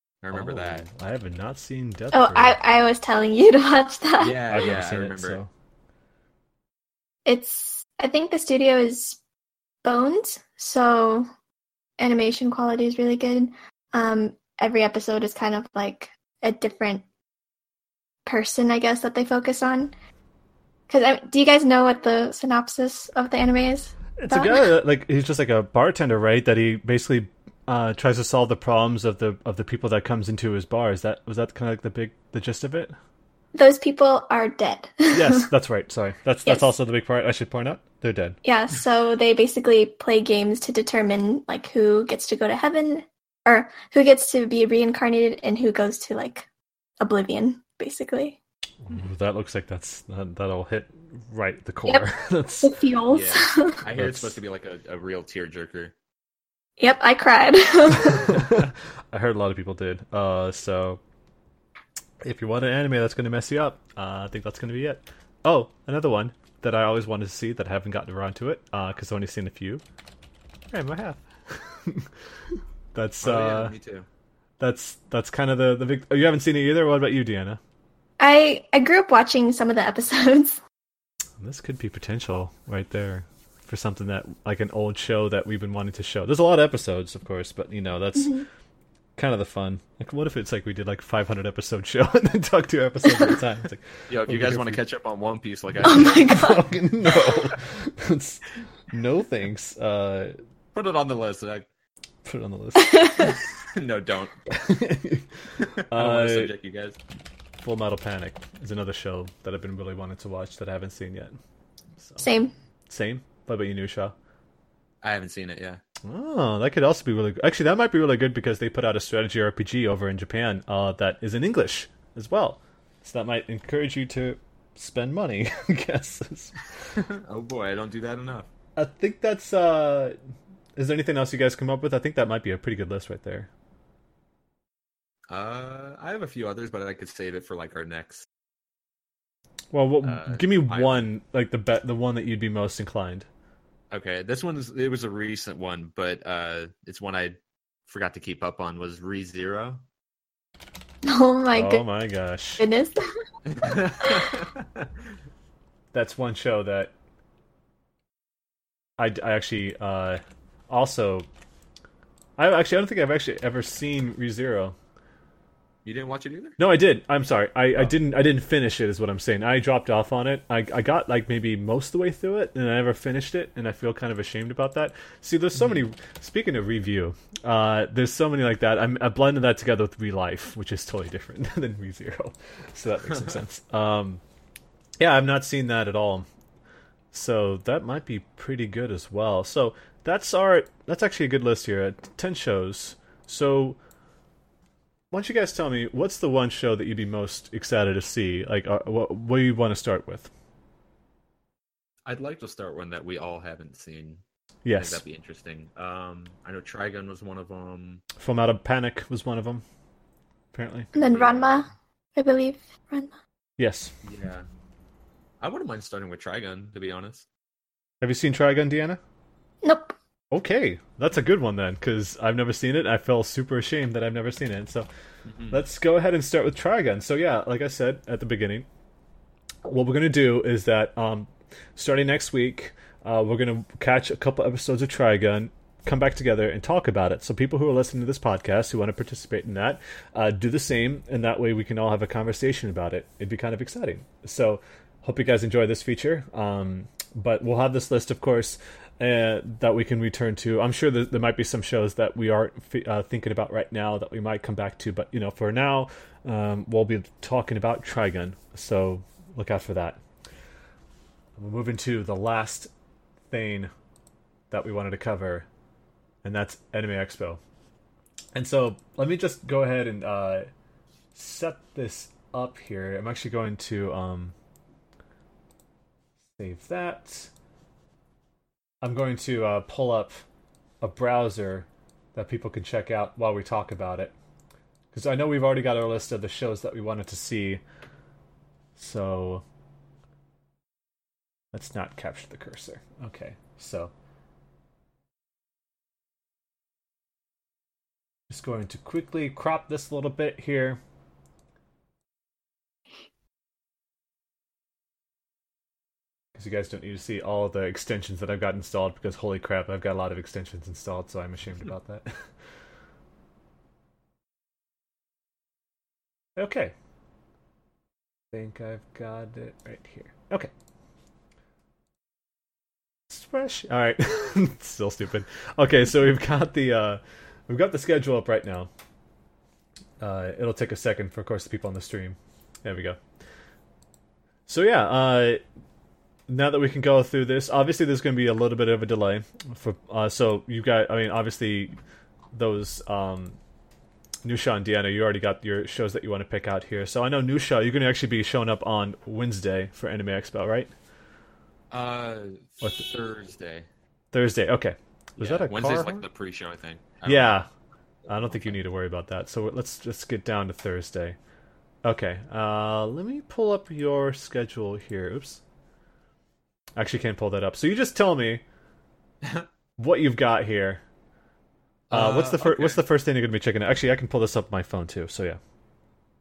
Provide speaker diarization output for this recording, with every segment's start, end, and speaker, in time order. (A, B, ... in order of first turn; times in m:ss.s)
0:00.2-0:00.9 A
0:00.3-0:02.6 B
0:02.1-0:04.4 C
0:04.2-0:05.4 A
0:04.5-0:05.5 B
0:07.3-0:09.2 C
0:09.8-0:11.3 C
0:12.0-0:17.0 C
0:18.3-0:19.9 C
0:20.9-0:24.7 C
0:24.2-0:32.9 B
0:33.6-0:35.5 C
0:35.1-0:38.4 B
0:36.4-0:36.7 C
0:38.4-0:46.5 C
0:47.0-0:48.4 C
0:48.8-0:52.8 B
0:52.6-0:53.8 C
0:53.1-0:55.9 A
0:53.9-0:54.4 B
0:56.8-0:58.4 C
0:58.0-1:01.0 B
1:02.2-1:09.8 B
1:10.7-1:12.1 B
1:12.9-1:13.7 B
1:13.2-1:14.1 A
1:14.6-1:17.6 B
1:18.2-1:20.6 C
1:21.4-1:28.3 B
1:28.1-1:28.4 C
1:29.2-1:34.8 B
1:33.1-1:33.3 C
1:34.1-1:36.2 A
1:35.8-1:36.6 C
1:36.2-1:40.4 B
1:40.7-1:41.7 A
1:42.2-1:43.2 B
1:42.8-1:43.4 C
1:43.2-1:44.4 A
1:44.5-1:45.3 B
1:45.6-1:47.0 A
1:45.9-1:46.5 B
1:47.6-1:51.4 B
1:52.0-1:52.2 B
1:52.2-1:52.5 C
1:52.9-1:54.1 B
1:55.0-1:55.8 A
1:56.0-2:06.6 B
2:07.0-2:08.5 A
2:08.8-2:10.1 B
2:10.8-2:13.5 B
2:15.3-2:18.3 A
2:19.7-2:23.3 B
2:20.0-2:21.0 A
2:23.9-2:27.4 A
2:27.9-2:29.8 A
2:31.1-2:31.8 C
2:31.5-2:32.6 B
2:32.6-2:33.0 C
2:33.4-2:35.0 A
2:33.6-2:34.3 C
2:35.9-2:36.9 B
2:39.0-2:41.3 B
2:42.4-2:44.8 B
2:45.8-2:46.6 A
2:46.6-3:04.2 B
2:55.6-2:55.8 A
3:05.0-3:06.3 B
3:07.1-3:13.8 B
3:15.1-3:20.3 B
3:22.1-3:24.2 A
3:24.6-3:25.0 B
3:24.8-3:28.1 A
3:28.2-3:29.6 B
3:30.5-3:30.9 B
3:30.9-3:31.6 A
3:30.9-3:33.1 C
3:33.6-3:33.9 B
3:34.0-3:34.4 A
3:35.4-3:37.3 A
3:38.0-3:39.0 B
3:39.6-3:40.0 C
3:40.3-3:44.9 B
3:45.3-3:45.6 A
3:45.5-3:48.6 B
3:49.6-4:20.0 B
4:21.4-4:22.7 B
4:23.3-4:23.7 B
4:24.5-4:25.5 B
4:26.2-4:27.4 B
4:28.3-4:30.5 B
4:31.1-4:34.4 B
4:36.4-4:37.3 B
4:38.8-4:40.2 B
4:40.8-4:44.1 B
4:44.9-4:47.6 B
4:48.8-4:49.4 B
4:51.5-4:53.9 B
4:58.3-5:00.8 B
5:06.4-5:12.2 B
5:16.4-5:16.7 B
5:18.3-5:20.5 B
5:23.1-5:28.7 B
5:30.0-5:33.0 B
5:34.5-5:35.4 B
5:36.3-5:41.7 B
5:42.3-5:43.4 B
5:44.2-5:50.7 B
5:51.7-5:53.7 A
5:54.1-5:56.0 B
5:55.2-5:57.4 A
5:57.0-5:57.5 B
5:58.1-5:58.6 A
5:58.1-6:01.2 B
6:01.8-6:05.4 B
6:06.8-6:08.4 B
6:09.2-6:09.5 A
6:09.8-6:10.8 B
6:11.9-6:12.8 A
6:11.9-6:15.4 B